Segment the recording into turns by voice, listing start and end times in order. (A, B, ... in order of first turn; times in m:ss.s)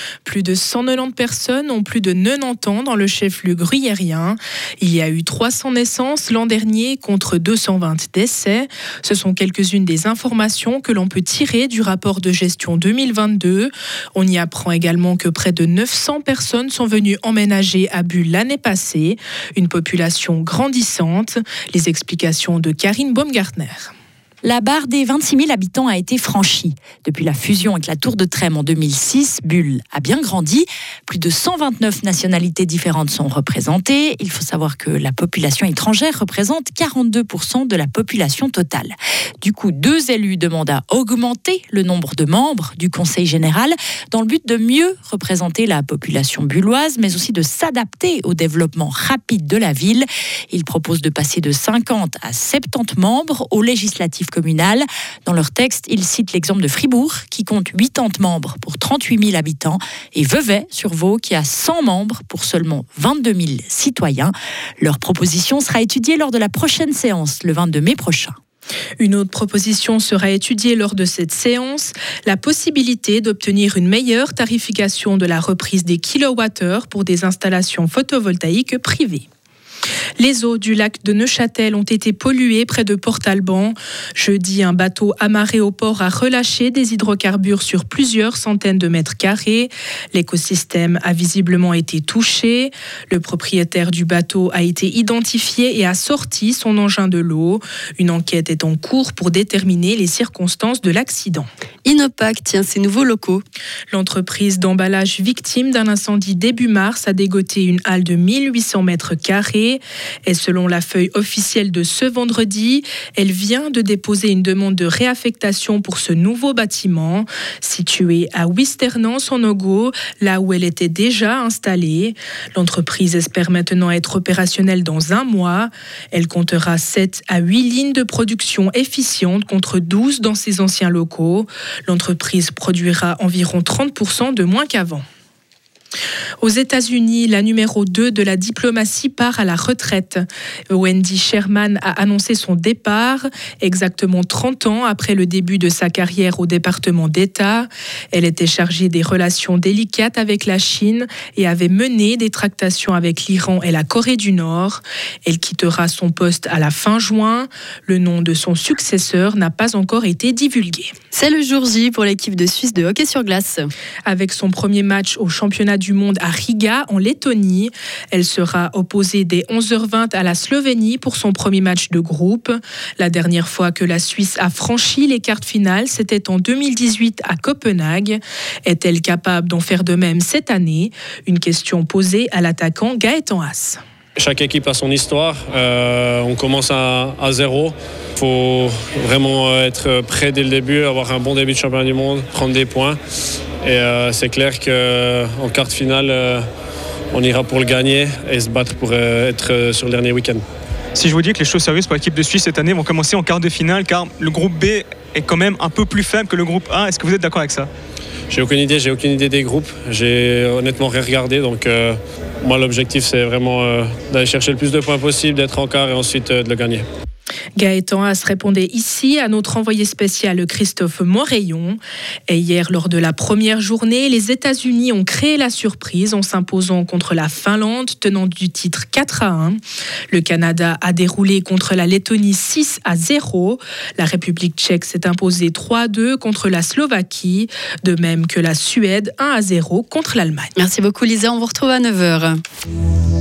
0:00.2-0:23.9 A
0:24.4-1:08.4 B
1:09.0-1:19.2 A
1:20.2-1:41.5 A
1:41.8-1:43.4 C
1:43.9-2:15.0 A
2:16.4-2:40.9 A
2:41.1-2:43.7 C
2:44.0-3:03.8 A
3:04.2-3:13.0 D
3:13.6-3:16.4 D
3:17.1-3:20.4 D
3:20.9-3:27.7 E
3:28.3-3:36.8 D
3:37.6-4:00.5 A
4:00.6-4:02.4 C